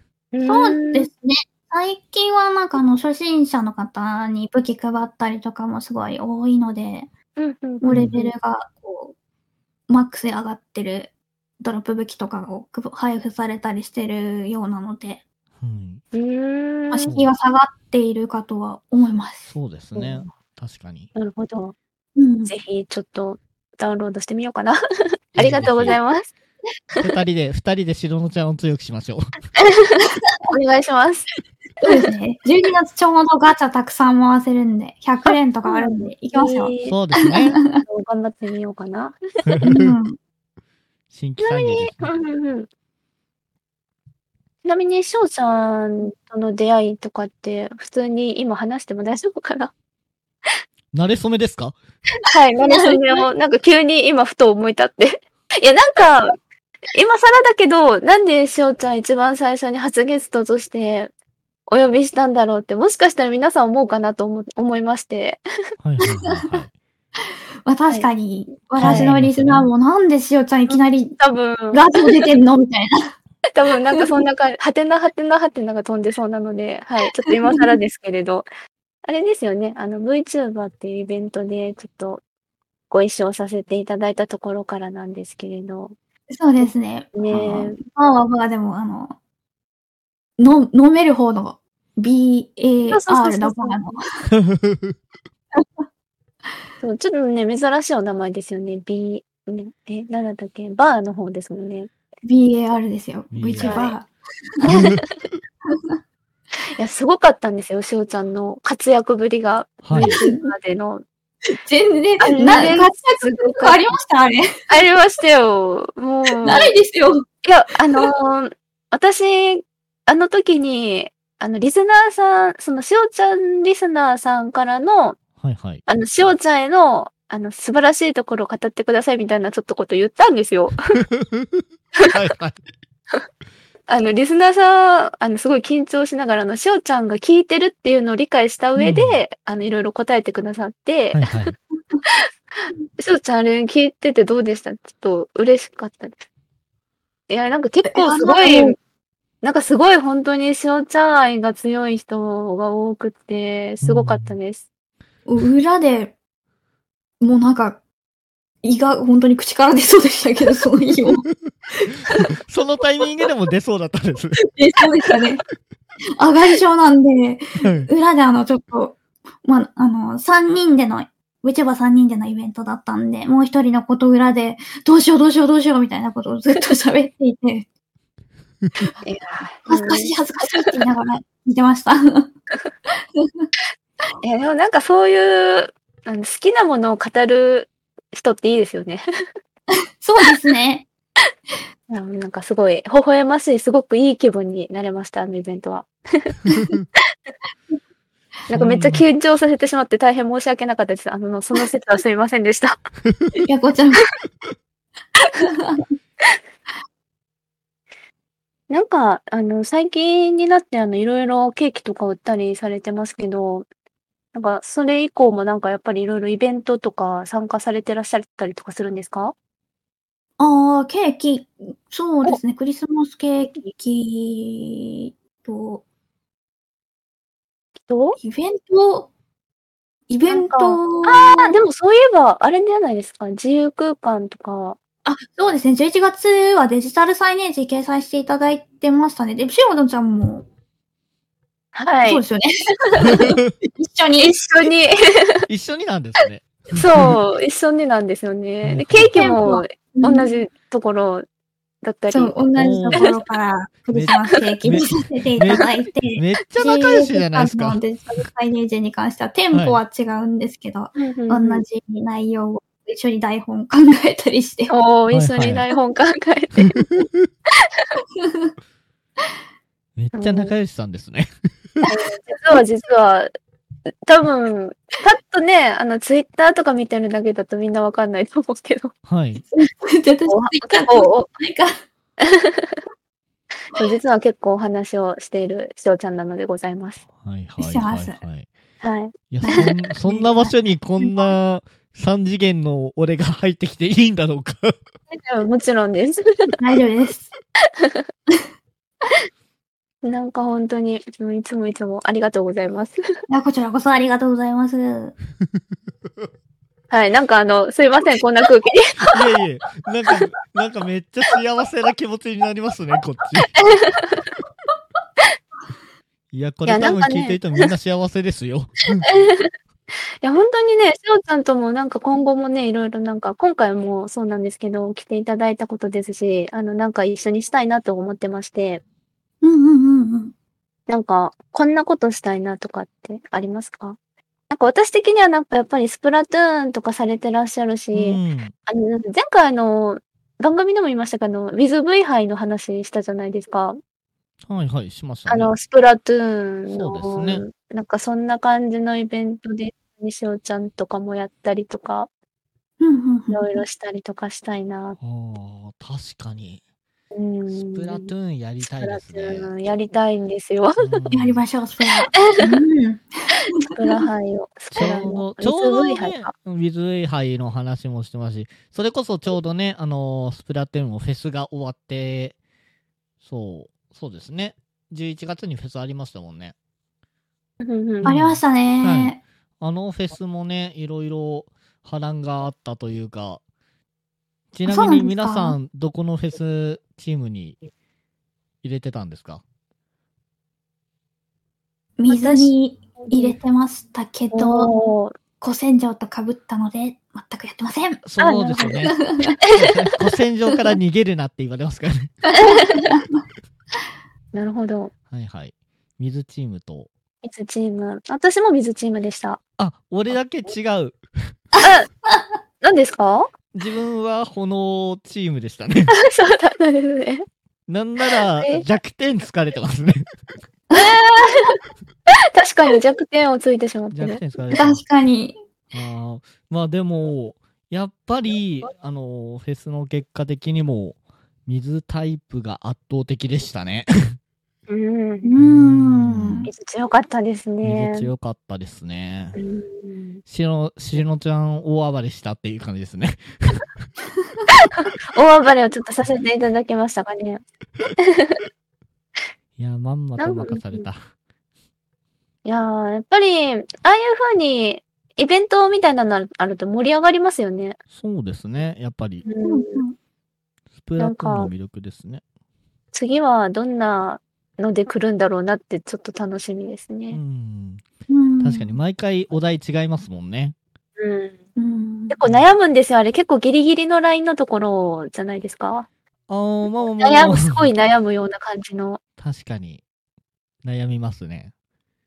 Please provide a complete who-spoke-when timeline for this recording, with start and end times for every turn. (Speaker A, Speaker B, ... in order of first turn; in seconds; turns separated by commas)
Speaker A: 0.3-1.1, Speaker B: 0.4-7.1, Speaker A: 7.4-8.3, Speaker B: 7.8-9.1, Speaker B: 9.9-15.2, Speaker C: 15.6-16.0, Speaker A: 16.1-17.1, Speaker B: 16.9-19.5, Speaker C: 19.5-21.1, Speaker A: 19.9-20.3, Speaker A: 21.1-21.8, Speaker B: 22.1-22.5, Speaker A: 22.5-24.8, Speaker A: 25.3-26.3, Speaker C: 25.4-26.0, Speaker C: 27.0-29.2, Speaker A: 30.5-31.3, Speaker B: 31.8-37.8, Speaker A: 31.8-32.1, Speaker A: 35.3-37.0, Speaker C: 36.9-37.6, Speaker A: 37.8-39.2, Speaker C: 39.5-40.0, Speaker B: 39.6-40.2, Speaker C: 41.1-42.1, Speaker A: 41.4-42.7, Speaker A: 44.6-49.7, Speaker C: 50.9-51.8, Speaker A: 52.3-56.4, Speaker B: 52.6-53.2, Speaker A: 56.9-61.1, Speaker A: 61.7-65.4, Speaker C: 65.8-66.7, Speaker B: 67.7-71.2, Speaker C: 68.8-69.7, Speaker A: 68.8-69.1, Speaker A: 70.7-72.3, Speaker B: 71.7-73.1, Speaker A: 73.5-78.5, Speaker B: 77.2-77.7, Speaker A: 79.0-82.2, Speaker A: 82.9-86.0, Speaker B: 86.3-89.2, Speaker A: 86.6-87.8, Speaker B: 90.4-94.0, Speaker A: 92.9-93.8, Speaker C: 94.3-95.0, Speaker A: 96.8-101.9, Speaker B: 102.2-104.6, Speaker C: 103.3-103.8, Speaker A: 103.6-104.0, Speaker A: 104.6-105.0, Speaker C: 104.7-105.0, Speaker B: 105.7-106.0, Speaker A: 106.8-111.0, Speaker C: 109.8-110.2, Speaker B: 110.0-110.5, Speaker B: 111.5-114.6, Speaker A: 112.2-113.8, Speaker A: 114.7-116.7, Speaker B: 116.2-117.2, Speaker A: 117.4-125.2, Speaker B: 117.8-118.1, Speaker C: 125.4-125.8, Speaker A: 125.9-130.9, Speaker C: 131.0-132.6, Speaker A: 133.9-141.5, Speaker C: 138.8-139.2, Speaker C: 141.1-141.5, Speaker A: 143.0-146.2, Speaker A: 147.3-148.8, Speaker B: 147.8-148.8, Speaker A: 149.4-154.7, Speaker C: 153.8-154.3, Speaker B: 155.2-156.2, Speaker B: 157.2-157.8, Speaker B: 158.6-162.3, Speaker C: 162.3-164.4, Speaker B: 164.4-165.4, Speaker B: 166.2-177.7, Speaker C: 167.6-167.9, Speaker A: 179.0-180.7, Speaker B: 179.7-182.3, Speaker B: 182.9-183.5, Speaker A: 184.2-189.0, Speaker B: 190.0-190.9, Speaker A: 191.9-196.4, Speaker A: 198.5-202.8, Speaker C: 198.5-199.0, Speaker B: 203.4-204.0, Speaker B: 205.3-205.8, Speaker A: 208.7-213.7, Speaker A: 214.3-219.3, Speaker B: 220.4-225.8, Speaker A: 227.9-228.2, Speaker B: 228.2-229.1, Speaker B: 230.1-231.5, Speaker A: 230.3-234.8, Speaker B: 235.1-240.4, Speaker A: 241.7-242.2, Speaker B: 242.1-244.3, Speaker C: 243.0-243.5, Speaker A: 244.2-245.3, Speaker C: 245.4-247.2, Speaker A: 246.7-251.2, Speaker C: 248.6-249.2, Speaker B: 249.1-250.3, Speaker A: 251.8-252.4, Speaker B: 252.1-264.7, Speaker C: 252.6-253.1, Speaker C: 253.9-257.8, Speaker C: 259.5-259.8, Speaker A: 260.9-261.6, Speaker A: 264.7-266.7, Speaker C: 265.1-265.6, Speaker C: 266.7-267.3, Speaker A: 267.6-267.9, Speaker B: 268.1-268.5, Speaker C: 269.9-271.8, Speaker A: 270.1-270.5, Speaker A: 271.9-273.3, Speaker A: 274.0-278.9, Speaker C: 279.0-279.4, Speaker B: 279.5-281.8, Speaker A: 280.3-281.2, Speaker A: 282.2-282.8, Speaker A: 283.7-287.0, Speaker C: 287.1-288.5, Speaker B: 287.6-288.2, Speaker A: 288.8-289.7, Speaker C: 289.3-294.8, Speaker B: 289.4-291.3, Speaker A: 295.1-296.6, Speaker B: 296.6-297.3, Speaker A: 297.8-298.0, Speaker A: 300.0-303.0, Speaker B: 303.3-305.1, Speaker A: 306.9-309.1, Speaker C: 309.1-313.5, Speaker A: 313.6-314.3, Speaker C: 316.3-319.1, Speaker A: 316.6-317.4, Speaker A: 319.0-319.5, Speaker A: 320.2-328.8, Speaker B: 329.4-330.3, Speaker A: 330.9-334.0, Speaker A: 334.5-343.8, Speaker C: 337.9-338.5, Speaker C: 344.5-345.5, Speaker A: 345.3-352.1, Speaker C: 346.7-347.4, Speaker B: 352.8-353.6, Speaker A: 353.3-355.0, Speaker C: 355.0-356.6, Speaker A: 357.1-358.1, Speaker C: 357.5-359.5, Speaker A: 358.8-361.0, Speaker C: 360.8-361.4, Speaker B: 361.1-364.0, Speaker A: 363.6-366.3, Speaker C: 364.7-372.4, Speaker C: 373.2-376.5, Speaker A: 377.6-378.1, Speaker C: 378.0-383.4, Speaker B: 378.0-379.2, Speaker C: 384.5-387.6, Speaker B: 384.6-385.6, Speaker C: 388.6-389.4, Speaker B: 392.0-398.0, Speaker A: 392.1-393.4, Speaker A: 394.3-395.1, Speaker C: 398.0-399.0, Speaker A: 398.2-399.8, Speaker B: 398.8-399.4, Speaker C: 399.5-402.2, Speaker B: 402.2-403.2, Speaker A: 402.4-402.9, Speaker A: 404.3-404.9, Speaker C: 405.1-406.9, Speaker A: 407.2-409.4, Speaker C: 409.6-411.3, Speaker A: 411.6-411.9, Speaker A: 412.6-413.3, Speaker C: 413.5-415.9, Speaker A: 415.9-417.2, Speaker C: 417.7-420.1, Speaker A: 418.1-418.6, Speaker A: 420.7-421.6, Speaker A: 422.3-424.6, Speaker C: 423.9-424.8, Speaker B: 424.5-425.4, Speaker C: 425.7-434.2, Speaker A: 434.7-435.3, Speaker B: 435.2-436.5, Speaker C: 435.4-436.5, Speaker A: 436.5-438.1, Speaker C: 437.6-439.4, Speaker A: 439.4-440.2, Speaker C: 440.2-443.6, Speaker A: 444.5-447.4, Speaker A: 448.0-448.4, Speaker C: 449.6-451.0, Speaker A: 450.2-450.9, Speaker A: 452.4-457.8, Speaker C: 457.9-459.2, Speaker A: 459.2-459.8, Speaker B: 459.4-459.9, Speaker C: 460.8-462.2, Speaker A: 461.0-461.5, Speaker A: 462.9-467.2, Speaker C: 467.1-467.8, Speaker B: 468.1-468.8, Speaker C: 468.4-470.6, Speaker A: 471.0-471.4, Speaker B: 471.6-472.2, Speaker A: 472.1-475.9, Speaker C: 476.3-477.7, Speaker A: 477.0-479.0, Speaker C: 479.2-479.8, Speaker C: 480.6-481.5